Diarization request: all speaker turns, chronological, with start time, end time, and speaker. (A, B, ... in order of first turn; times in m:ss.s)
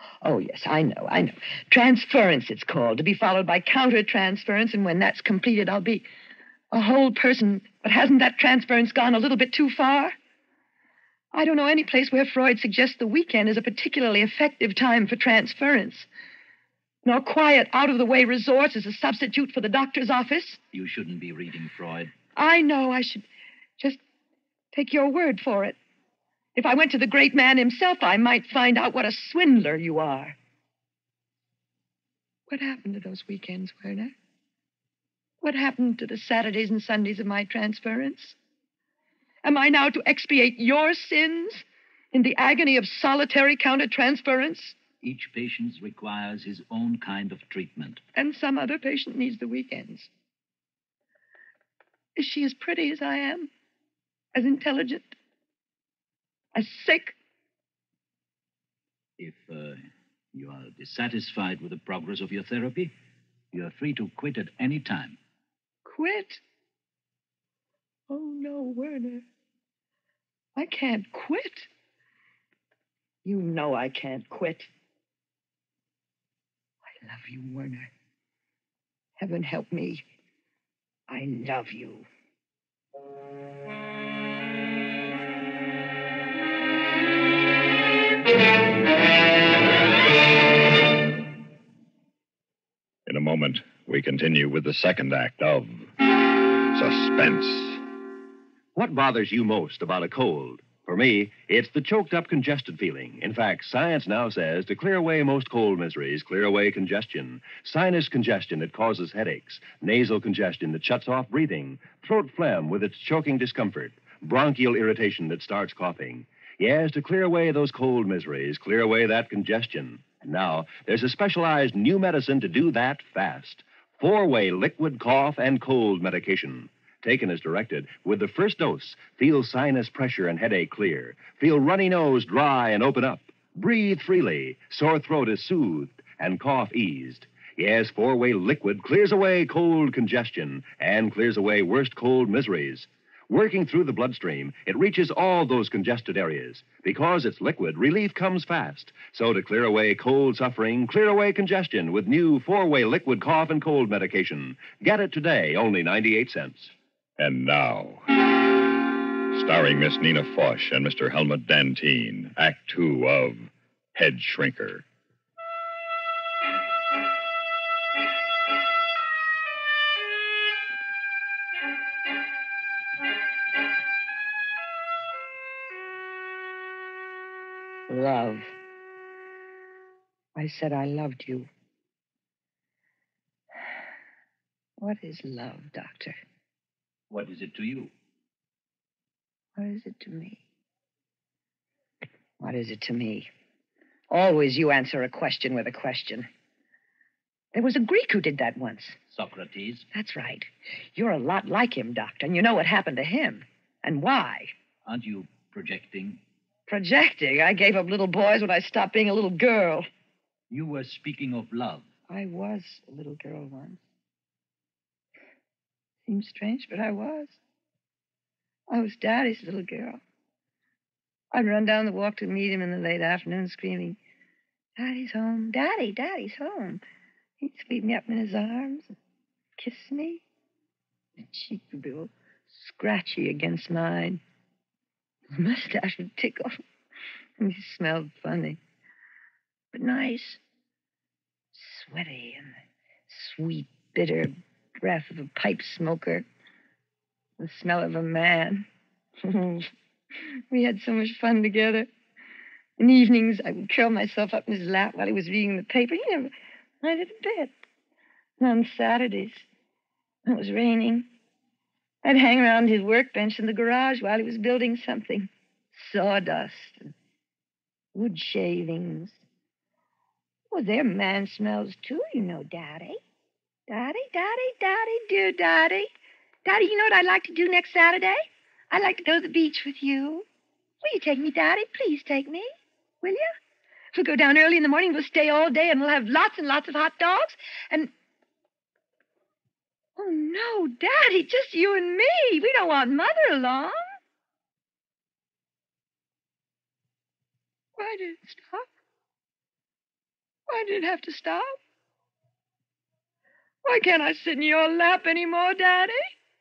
0:00.2-0:06.0 A
0:06.7-0:10.1 A
0:11.3-0:16.1 A
0:17.0-0:20.6 A
0:20.7-0:22.1 B
0:22.4-0:23.3 A
0:24.7-0:25.8 A
0:26.6-0:30.4 A
0:32.5-0:34.1 A
0:35.4-0:38.4 A
0:39.4-0:44.8 A
0:45.0-0:48.0 B
0:48.1-0:50.1 A
0:52.2-0:53.5 A
0:54.3-0:55.1 A
0:56.5-0:57.1 A
0:59.2-0:59.8 B
1:00.3-1:02.9 B
1:03.5-1:05.2 B
1:05.8-1:06.4 A
1:08.1-1:09.2 A
1:10.6-1:11.7 A
1:13.2-1:14.7 A
1:16.9-1:17.9 A
1:19.2-1:20.0 A
1:21.1-1:22.1 A
1:33.0-1:35.9 C
1:36.7-1:37.8 C
1:38.7-2:36.7 D
2:37.2-2:38.1 C
2:39.3-2:44.8 C
2:57.9-2:58.5 A
3:00.4-3:01.5 A
3:04.8-3:06.2 A
3:07.1-3:07.9 B
3:09.6-3:10.4 A
3:12.4-3:13.3 A
3:14.1-3:16.3 A
3:17.5-3:19.0 A
3:19.1-3:19.9 B
3:19.9-3:24.5 A
3:24.8-3:26.2 B
3:26.7-3:29.8 A
3:30.5-3:31.9 B
3:32.1-3:33.8 A
3:36.1-3:37.4 A
3:38.7-3:40.0 A
3:41.3-3:44.0 A
3:44.8-3:46.8 A
3:47.4-3:48.9 A
3:49.6-3:50.2 A
3:51.2-3:54.2 A
3:55.3-3:56.6 A
3:57.4-3:58.6 A
3:59.7-4:00.4 A
4:01.5-4:02.5 A
4:03.1-4:06.2 A
4:07.4-4:08.6 A
4:09.2-4:09.7 A
4:10.5-4:11.9 A
4:12.8-4:17.5 A
4:18.4-4:19.4 A
4:20.2-4:21.1 A
4:22.0-4:26.8 A
4:27.9-4:29.2 A
4:30.5-4:33.0 A
4:33.7-4:35.9 A
4:36.4-4:40.2 A
4:40.8-4:42.5 A
4:43.0-4:43.3 A
4:43.9-4:47.9 A
4:50.0-4:53.8 A
4:57.8-4:58.7 A
5:00.5-5:01.6 A
5:03.6-5:06.0 A